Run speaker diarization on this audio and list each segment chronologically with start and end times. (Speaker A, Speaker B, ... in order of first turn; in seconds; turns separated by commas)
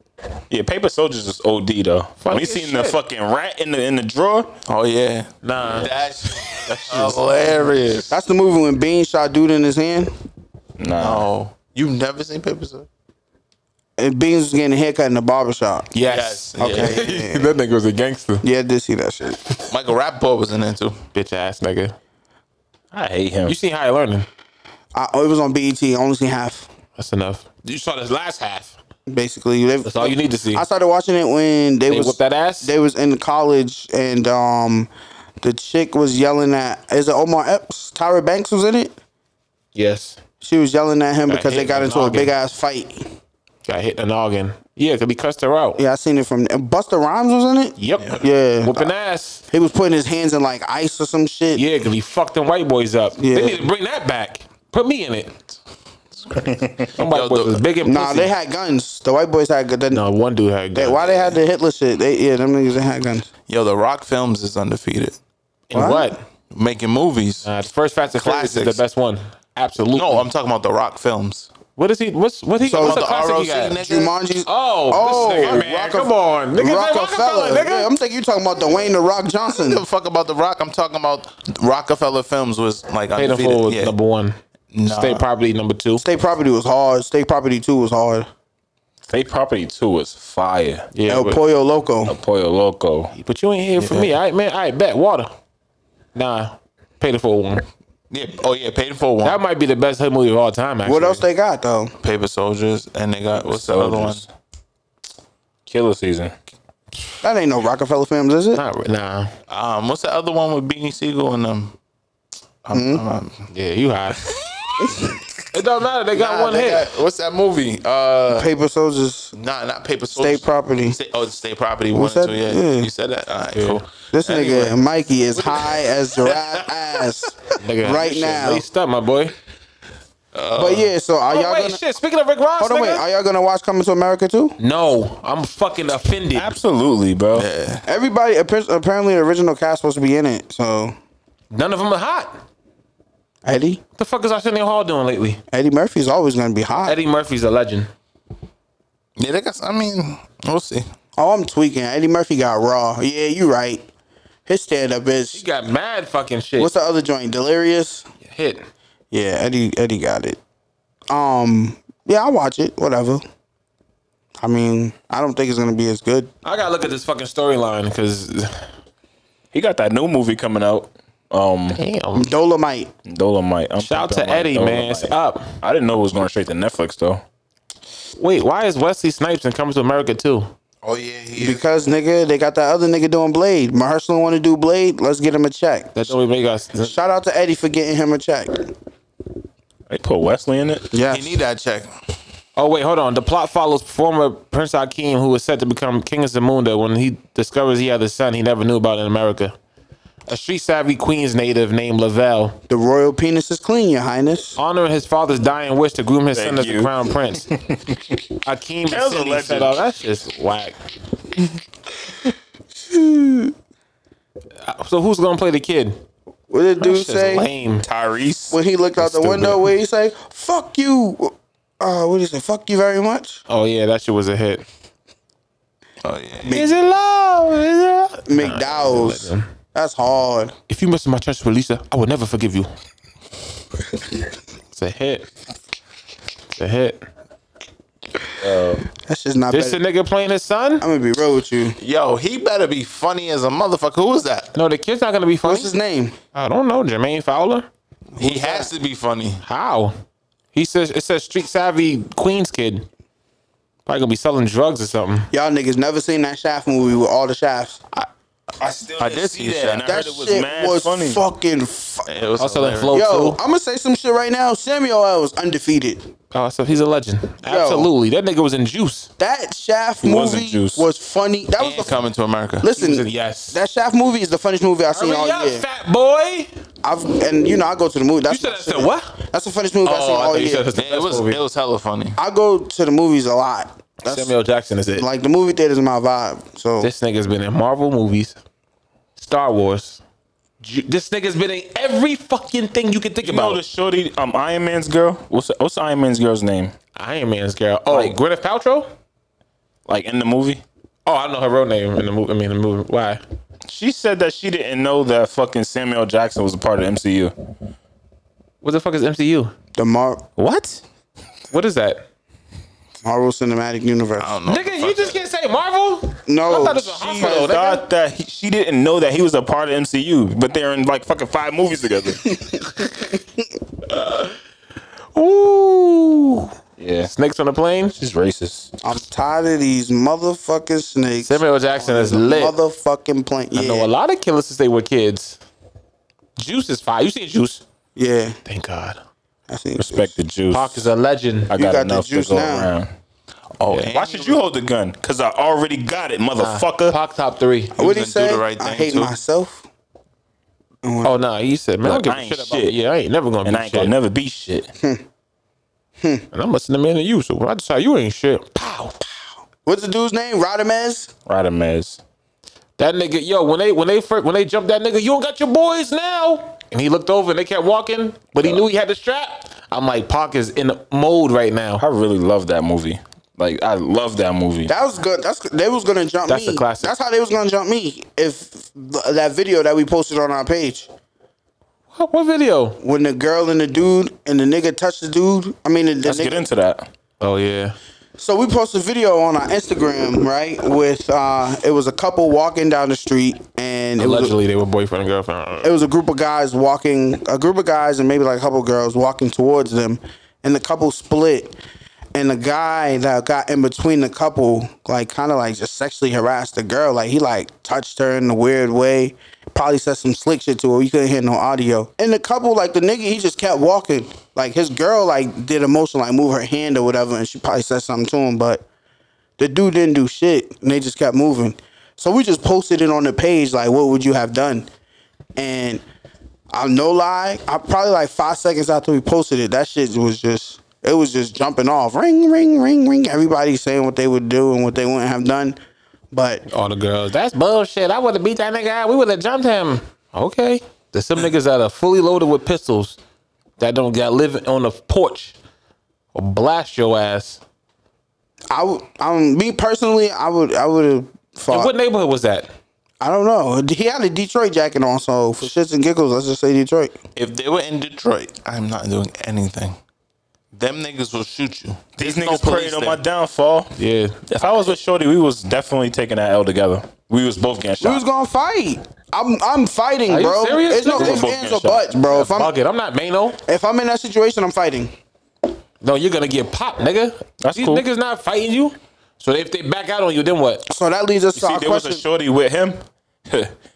Speaker A: 0.5-4.5, Speaker B: 2.2-3.0, Speaker C: 4.7-8.1, Speaker B: 5.4-5.9, Speaker B: 6.4-7.2, Speaker D: 8.1-10.1, Speaker A: 10.8-11.3, Speaker C: 11.0-12.9, Speaker D: 14.0-15.9, Speaker B: 15.9-18.4, Speaker C: 16.0-17.1, Speaker D: 16.6-17.5, Speaker D: 18.4-19.6, Speaker C: 19.7-21.0, Speaker B: 21.1-21.9, Speaker A: 22.9-23.6, Speaker B: 23.5-24.3, Speaker D: 24.9-26.7, Speaker B: 27.0-28.8, Speaker D: 29.1-34.9, Speaker B: 29.8-30.6, Speaker B: 31.9-32.7, Speaker D: 35.4-38.9, Speaker B: 39.8-40.2, Speaker D: 40.4-43.1, Speaker B: 41.3-42.3, Speaker B: 43.6-45.8, Speaker D: 45.8-48.9, Speaker B: 47.8-49.4, Speaker D: 49.5-51.6, Speaker B: 51.5-55.4, Speaker D: 53.2-53.7, Speaker A: 56.3-56.9, Speaker C: 57.0-57.6, Speaker B: 57.0-58.3, Speaker D: 57.8-60.0, Speaker B: 59.9-61.1, Speaker D: 60.8-63.3, Speaker C: 63.5-65.2, Speaker B: 65.7-66.2, Speaker D: 65.7-66.1, Speaker C: 66.5-67.5, Speaker B: 67.4-70.3, Speaker C: 68.1-68.8, Speaker C: 70.0-71.5, Speaker B: 71.8-73.8, Speaker C: 72.7-74.2, Speaker D: 72.7-73.0, Speaker D: 73.8-79.8, Speaker B: 74.5-77.9, Speaker C: 75.1-75.5, Speaker C: 79.5-83.9, Speaker B: 83.2-86.0, Speaker C: 84.7-85.2, Speaker D: 86.0-88.3, Speaker A: 89.1-90.9, Speaker B: 90.9-91.4, Speaker D: 91.1-92.2, Speaker A: 92.1-93.1, Speaker B: 93.1-95.3, Speaker C: 93.8-94.1, Speaker B: 96.2-97.7, Speaker C: 98.1-99.4, Speaker B: 99.2-101.2, Speaker D: 100.8-101.9, Speaker C: 102.0-104.2, Speaker A: 103.3-104.3, Speaker A: 105.7-106.3, Speaker D: 107.2-108.6, Speaker B: 108.5-109.3, Speaker C: 109.5-111.8, Speaker C: 112.7-113.5, Speaker D: 112.7-113.0, Speaker B: 113.5-114.3, Speaker D: 114.8-115.1, Speaker B: 115.5-116.8, Speaker C: 116.1-118.5, Speaker D: 118.3-119.3, Speaker C: 119.3-124.8, Speaker D: 120.1-121.0, Speaker D: 121.9-122.9, Speaker B: 123.5-123.8, Speaker D: 124.1-128.7, Speaker C: 125.3-126.7, Speaker B: 127.6-129.3, Speaker C: 130.3-130.9, Speaker D: 130.6-131.8, Speaker B: 131.3-133.0, Speaker D: 132.6-134.6, Speaker B: 134.6-136.5, Speaker A: 136.3-137.5, Speaker C: 137.3-137.8, Speaker D: 137.9-140.9, Speaker B: 141.5-142.4, Speaker D: 143.4-143.8, Speaker B: 144.0-145.4, Speaker D: 145.5-147.0, Speaker B: 146.8-147.9, Speaker C: 149.2-150.9, Speaker D: 151.2-153.9, Speaker D: 154.5-155.4, Speaker B: 155.3-156.7, Speaker D: 156.6-158.1, Speaker B: 158.2-158.7, Speaker D: 159.1-160.4, Speaker D: 161.1-163.2, Speaker D: 164.4-166.3, Speaker B: 166.4-168.7, Speaker A: 169.5-171.8, Speaker B: 171.7-172.3, Speaker D: 172.2-172.9, Speaker A: 173.1-177.2, Speaker B: 173.8-175.6, Speaker B: 178.2-180.5, Speaker C: 180.8-181.7, Speaker D: 181.4-186.2, Speaker B: 185.9-186.9, Speaker D: 186.8-188.7, Speaker A: 189.9-190.9, Speaker D: 190.9-191.4, Speaker C: 191.1-191.9, Speaker B: 192.6-199.5, Speaker B: 200.3-202.6, Speaker D: 202.7-204.6, Speaker B: 204.6-207.5, Speaker A: 206.3-208.2, Speaker B: 208.4-210.8, Speaker A: 208.9-209.8, Speaker D: 212.8-213.5, Speaker B: 214.6-216.0, Speaker D: 216.5-217.5, Speaker B: 216.8-217.9, Speaker A: 217.8-218.6, Speaker D: 218.5-223.4, Speaker B: 219.0-219.7, Speaker B: 223.5-224.7, Speaker C: 226.0-226.6, Speaker D: 226.4-226.8, Speaker B: 226.5-229.5, Speaker D: 228.3-230.5, Speaker B: 230.7-232.7, Speaker B: 234.7-235.3, Speaker B: 236.6-237.0, Speaker A: 238.4-238.8, Speaker D: 239.1-239.8, Speaker B: 239.5-240.8, Speaker D: 240.8-241.8, Speaker C: 241.8-244.5, Speaker B: 244.5-245.7, Speaker D: 245.4-246.2, Speaker B: 246.3-247.7, Speaker D: 248.2-248.7, Speaker C: 248.2-249.4, Speaker B: 249.4-249.9, Speaker B: 250.5-252.9, Speaker B: 253.9-255.3, Speaker D: 255.3-257.8, Speaker A: 258.6-261.2, Speaker C: 259.0-259.9, Speaker D: 259.9-262.1, Speaker C: 262.1-263.0, Speaker B: 262.4-263.4, Speaker D: 262.9-266.1, Speaker B: 266.3-269.1, Speaker D: 267.5-267.9, Speaker D: 269.2-272.0, Speaker A: 270.0-270.9, Speaker C: 271.6-272.7, Speaker D: 272.6-275.6, Speaker B: 272.7-273.6, Speaker B: 274.9-276.5, Speaker D: 276.8-280.7, Speaker B: 278.3-279.1, Speaker B: 279.8-281.4, Speaker C: 280.7-282.2, Speaker D: 282.2-284.3, Speaker B: 284.0-285.1, Speaker D: 285.0-286.9, Speaker B: 286.8-288.4, Speaker B: 289.2-290.0, Speaker B: 290.6-293.6, Speaker A: 293.2-296.7, Speaker B: 296.9-298.9, Speaker A: 297.9-298.2, Speaker A: 299.9-300.6, Speaker B: 301.1-303.2, Speaker A: 303.7-307.3, Speaker B: 308.6-309.5, Speaker D: 309.8-310.2, Speaker B: 310.4-310.8, Speaker B: 311.5-312.1, Speaker D: 313.0-314.3, Speaker C: 314.2-315.2, Speaker B: 314.5-317.9, Speaker D: 316.3-317.5, Speaker A: 316.8-322.4, Speaker B: 323.9-324.4, Speaker B: 325.1-326.5, Speaker A: 326.8-327.1, Speaker B: 327.0-328.0, Speaker A: 328.0-328.7, Speaker D: 328.8-333.9, Speaker B: 331.2-332.6, Speaker B: 333.5-335.4, Speaker B: 336.4-337.6, Speaker D: 338.0-338.4, Speaker B: 338.5-339.0, Speaker D: 339.5-340.1, Speaker A: 339.8-340.9, Speaker B: 340.5-341.5, Speaker A: 341.5-342.9, Speaker D: 341.5-342.7, Speaker C: 343.6-344.4, Speaker A: 343.9-346.9, Speaker B: 346.4-347.8, Speaker C: 347.8-349.2, Speaker D: 347.8-349.6, Speaker D: 350.8-351.2, Speaker B: 351.0-353.9, Speaker A: 351.8-352.8, Speaker A: 353.4-354.7, Speaker B: 356.3-359.0, Speaker D: 359.7-361.1, Speaker A: 361.3-362.0, Speaker B: 362.8-371.8, Speaker A: 371.8-374.7, Speaker D: 374.7-380.9, Speaker B: 376.3-376.9, Speaker B: 381.9-382.8, Speaker D: 382.8-386.4, Speaker A: 386.1-386.9, Speaker B: 387.2-387.8, Speaker D: 388.2-394.3, Speaker B: 394.0-395.7, Speaker D: 395.6-401.6, Speaker D: 402.1-418.6, Speaker D: 419.4-424.7, Speaker D: 425.4-425.8, Speaker D: 426.5-435.6, Speaker D: 436.1-436.4, Speaker B: 436.5-443.0, Speaker B: 443.6-445.4, Speaker B: 446.1-447.4, Speaker D: 448.5-451.7, Speaker B: 451.5-452.5, Speaker D: 453.0-456.9, Speaker C: 457.1-459.8, Speaker C: 460.5-463.0, Speaker A: 462.0-463.7, Speaker B: 463.8-464.2, Speaker A: 464.3-468.0, Speaker D: 467.8-472.6, Speaker B: 470.1-471.3, Speaker A: 470.9-471.9, Speaker B: 472.1-473.4, Speaker D: 473.5-474.9, Speaker B: 475.8-480.6, Speaker A: 477.4-477.9, Speaker D: 480.7-482.0, Speaker A: 481.3-483.5